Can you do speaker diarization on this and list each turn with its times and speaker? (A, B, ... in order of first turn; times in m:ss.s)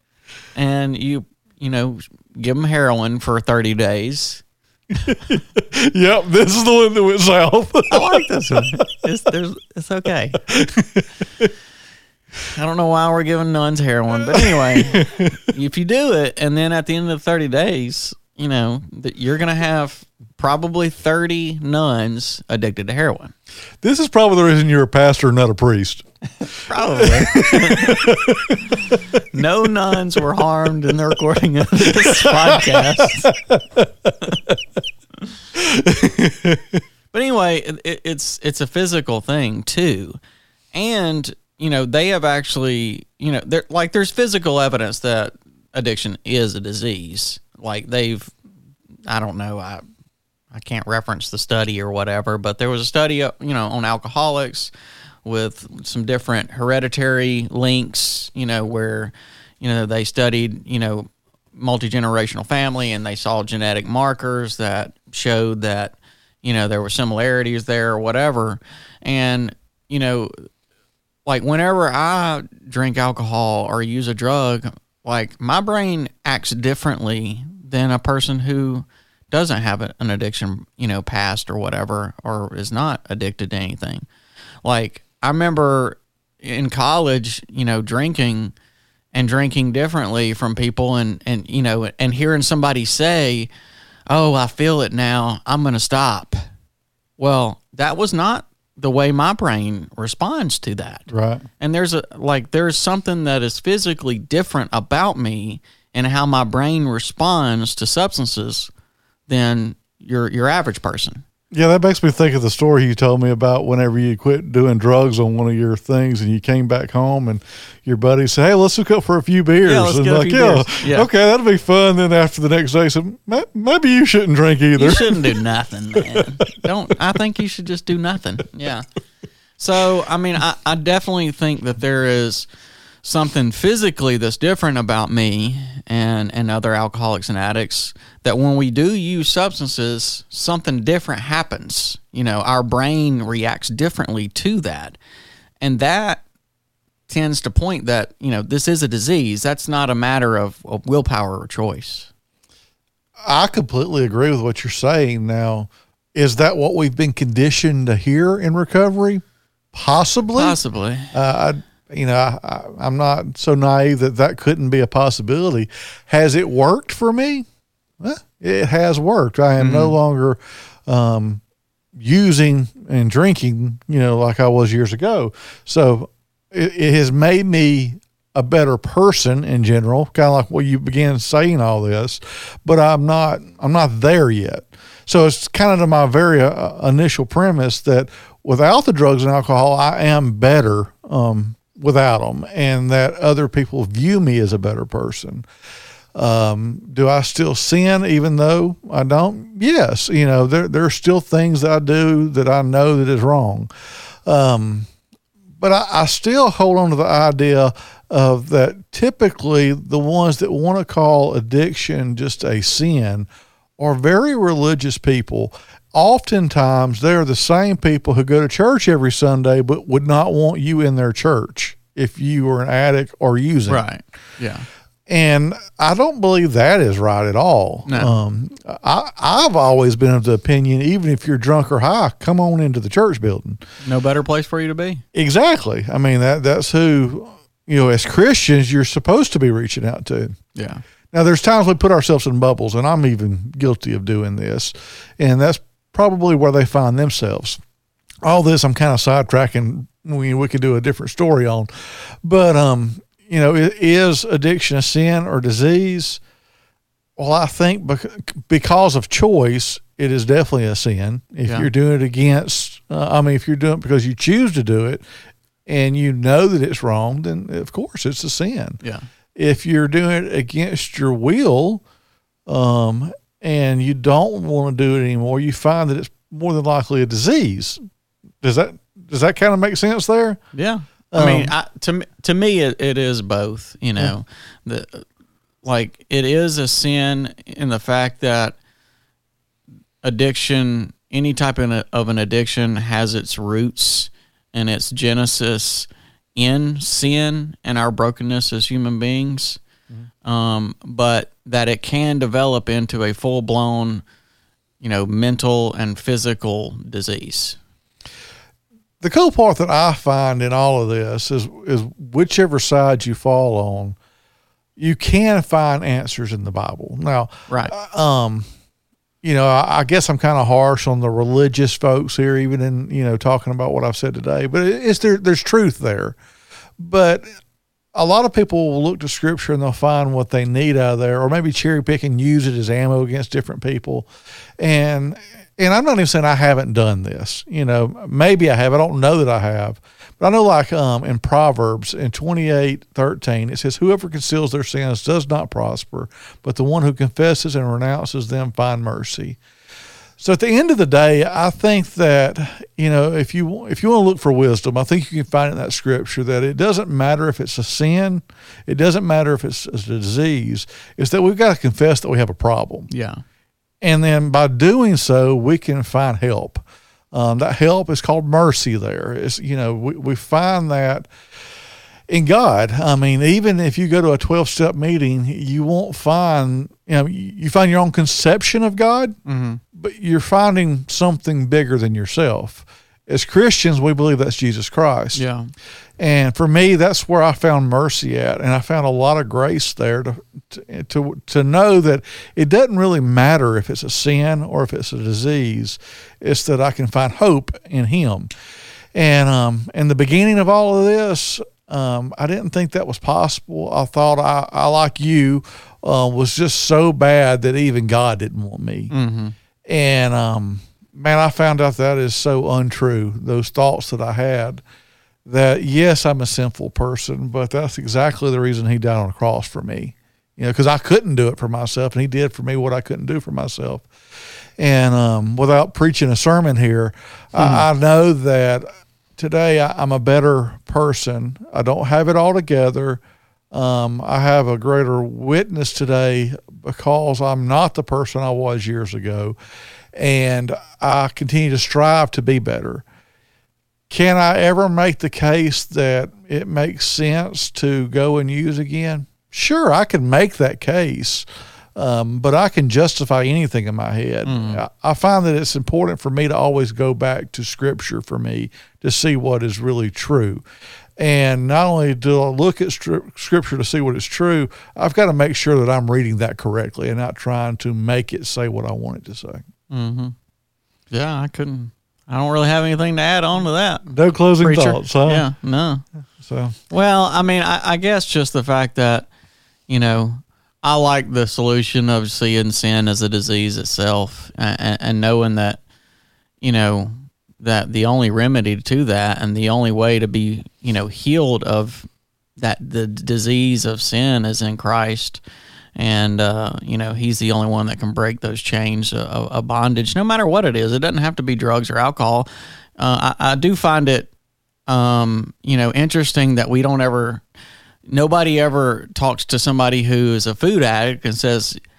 0:00.5-0:04.4 A
0:05.0-0:08.8 B
0:07.9-0:10.4 A
0:10.5-0:11.5 B
0:12.5-0:23.3 A
0:14.2-0:15.3 B
0:23.8-0:26.0 B
0:26.6-0:28.1 A
0:27.0-0:28.8 B
0:29.1-0:33.3 A
0:32.0-0:34.6 B
0:35.5-0:36.8 B
0:37.1-0:40.2 A
0:40.7-0:48.3 A
0:49.1-0:49.8 A
0:50.5-0:54.7 A
0:55.2-1:10.4 A
1:11.2-1:24.1 A
1:24.6-1:28.5 A
1:29.1-1:33.5 A
1:34.1-1:36.4 A
1:37.2-1:41.1 A
1:41.1-1:41.4 B
1:41.6-1:48.7 A
1:49.3-1:51.2 A
1:51.5-2:05.4 B
1:59.6-2:01.1 A
2:04.8-2:08.9 A
2:09.6-2:12.4 A
2:13.0-2:25.0 A
2:25.6-2:26.2 A
2:27.1-2:32.1 A
2:33.2-2:40.6 B
2:40.3-2:41.1 A
2:41.1-2:47.4 B
2:48.0-2:51.4 B
2:49.6-2:50.0 A
2:51.9-3:15.4 B
3:16.1-3:23.7 B
3:24.2-3:24.9 B
3:25.6-3:43.8 B
3:43.7-3:44.6 A
3:45.1-3:53.6 B
3:47.9-3:48.1 A
3:53.8-3:55.0 A
3:55.1-4:00.4 B
4:00.5-4:00.8 A
4:01.1-4:07.6 B
4:08.2-4:16.2 B
4:17.2-4:25.0 B
4:25.6-4:28.8 B
4:29.4-4:31.8 B
4:32.4-4:37.8 B
4:38.4-4:40.4 B
4:40.5-4:45.0 A
4:41.1-4:41.5 B
4:45.6-4:48.6 A
4:50.0-4:59.6 A
5:00.2-5:04.0 A
5:04.8-5:07.6 A
5:09.0-5:14.0 B
5:14.8-5:18.5 B
5:19.2-5:26.2 B
5:26.8-5:27.3 B
5:27.9-5:34.1 B
5:34.6-5:49.4 B
5:50.2-6:02.9 B
6:02.9-6:03.2 A
6:03.8-6:11.1 B
6:12.1-6:19.2 B
6:19.2-6:19.6 A
6:19.7-6:25.2 B
6:25.1-6:25.5 A
6:26.0-6:38.3 B
6:38.9-6:48.9 B
6:48.9-6:49.3 A
6:49.7-6:54.6 B
6:55.2-7:03.9 B
7:04.6-7:13.0 B
7:07.4-7:07.6 A
7:13.5-7:19.4 B
7:19.9-7:22.8 B
7:23.9-7:40.4 B
7:34.2-7:34.6 A
7:41.0-7:49.4 B
7:49.7-7:50.1 A
7:50.9-7:53.9 A
7:53.8-7:55.2 B
7:54.4-7:55.8 A
7:56.2-7:56.5 B
7:56.7-7:59.1 A
7:59.7-8:05.6 A
8:06.4-8:11.9 A
8:12.4-8:15.2 A
8:15.8-8:22.3 A
8:22.8-8:24.1 A
8:24.7-8:27.2 A
8:27.9-8:31.6 A